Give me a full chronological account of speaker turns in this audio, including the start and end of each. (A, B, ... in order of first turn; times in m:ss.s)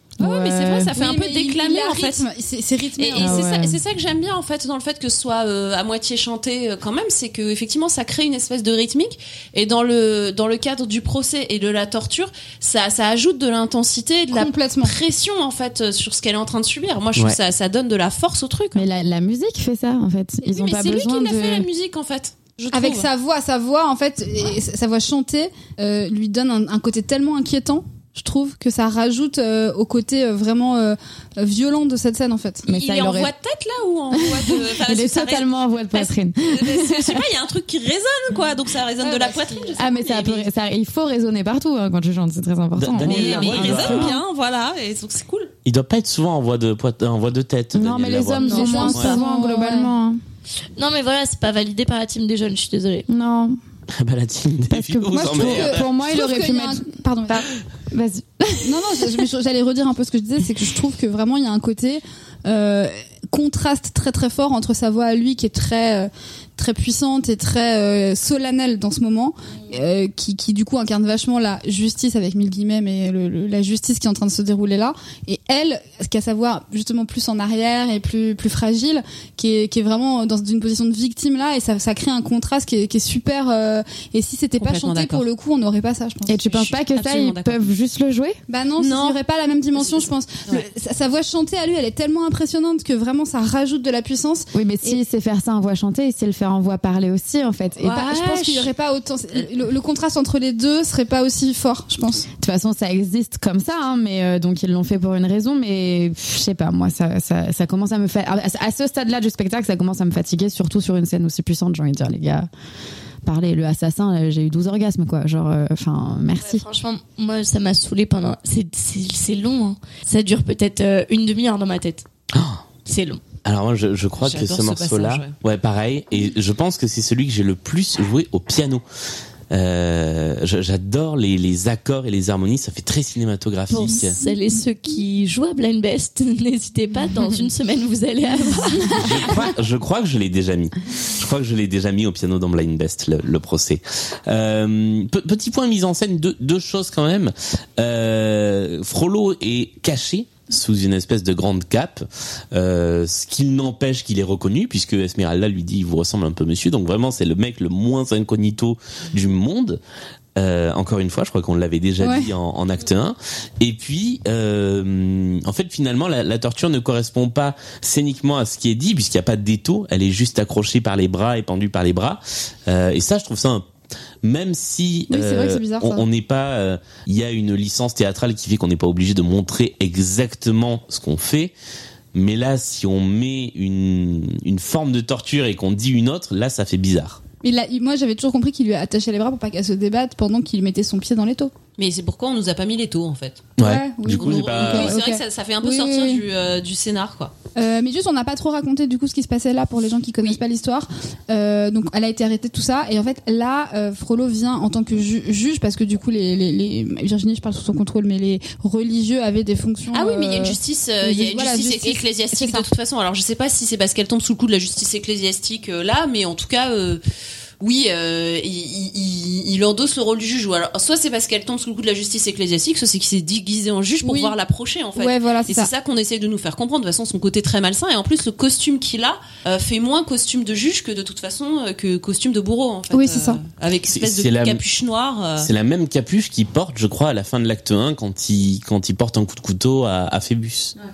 0:00.2-0:00.9 A
0:00.2-0:02.2 B
0:00.9-0:03.6 C
0:03.0-0:18.8 B
0:03.2-0:03.8 A
0:14.3-0:14.9 C
0:18.7-0:21.7 A
0:20.4-0:23.0 B
0:22.7-0:32.7 C
0:32.7-0:33.3 A
0:32.7-0:40.5 B
0:34.1-0:37.2 A
0:39.0-0:39.8 C
0:39.8-0:44.2 A
0:42.8-0:44.2 D
0:43.0-0:45.5 B
0:45.6-0:49.1 D
0:47.7-0:50.2 A
0:48.4-0:49.2 E
0:48.4-0:49.9 C
0:50.8-0:53.1 E
0:53.1-0:53.6 A
0:54.0-0:55.9 D
0:54.7-0:59.2 A
0:55.1-0:57.4 C
0:58.6-1:26.4 C
1:24.6-1:25.2 B
1:26.3-1:28.4 A
1:26.4-1:27.6 B
1:28.5-1:35.0 C
1:28.8-1:29.2 B
1:29.8-1:30.6 B
1:34.5-1:38.4 A
1:37.8-1:42.3 C
1:42.4-1:52.5 A
1:53.2-1:56.6 A
1:56.4-2:02.0 E
2:02.3-2:02.6 D
2:02.8-2:03.2 E
2:03.4-2:08.8 D
2:04.2-2:05.3 B
2:09.5-2:14.2 D
2:13.7-2:19.4 E
2:18.9-2:39.8 D
2:40.4-2:53.6 D
2:42.0-2:42.3 C
2:54.2-3:01.5 D
2:55.1-2:56.0 C
3:02.1-3:07.2 D
3:07.4-3:11.5 C
3:11.8-3:17.3 B
3:13.6-3:15.0 D
3:13.6-3:16.2 C
3:17.6-3:32.6 C
3:29.9-3:37.0 B
3:37.6-3:55.5 B
3:44.0-3:44.3 C
3:45.0-3:45.7 C
3:52.9-3:53.4 C
3:53.9-3:54.6 D
3:55.4-4:00.7 D